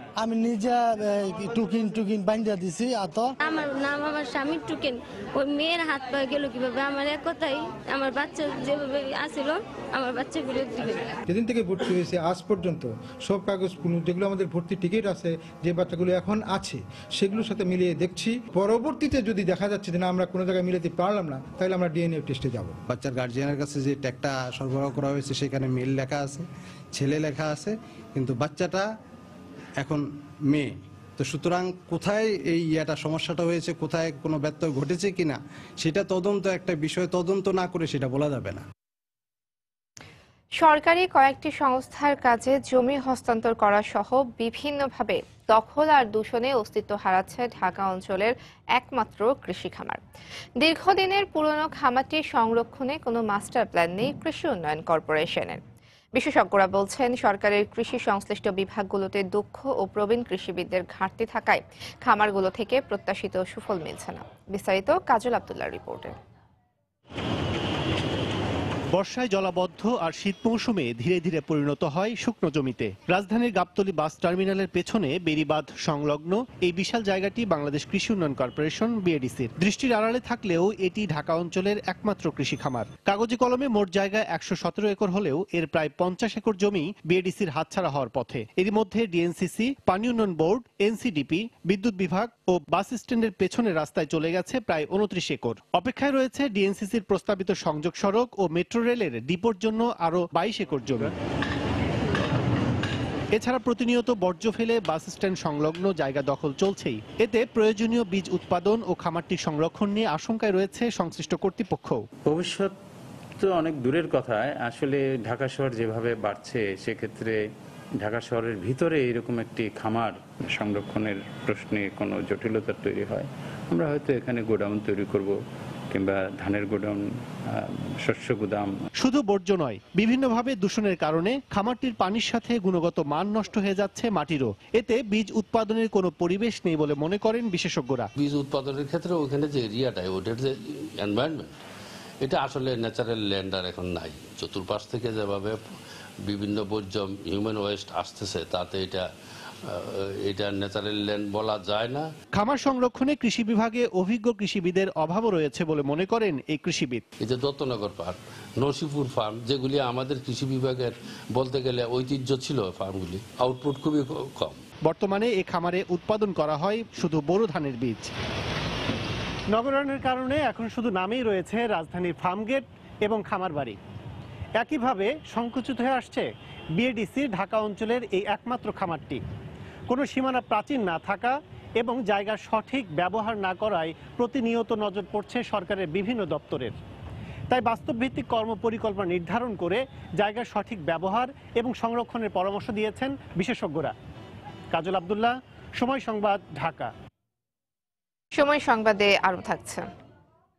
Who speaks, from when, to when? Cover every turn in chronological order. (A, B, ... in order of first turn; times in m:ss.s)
0:00.2-0:03.3 A
0:03.4-0:11.1 B
0:11.3-0:22.8 C
0:22.9-0:26.4 D
0:27.0-0:28.8 D
0:29.8-0:30.7 D
0:31.2-0:38.6 D
0:40.6-0:50.0 E
0:50.6-0:55.6 E
0:56.2-1:06.1 E
1:09.0-1:41.1 F
1:43.4-1:52.0 F
1:52.3-1:52.7 G
1:53.4-1:57.4 G
1:58.0-2:05.3 G
2:05.9-2:08.8 G
2:09.0-2:18.1 F
2:18.2-2:21.6 H
2:22.2-2:25.6 H
2:26.2-2:29.1 H
2:29.7-2:32.1 H
2:32.4-2:37.0 F
2:37.2-2:44.6 H
2:44.8-2:48.1 F
2:49.5-2:53.8 F
2:54.6-2:56.2 F
2:56.8-2:59.2 F
2:59.9-3:06.8 F
3:07.5-3:13.9 F
3:14.7-3:16.9 F
3:18.4-3:19.9 E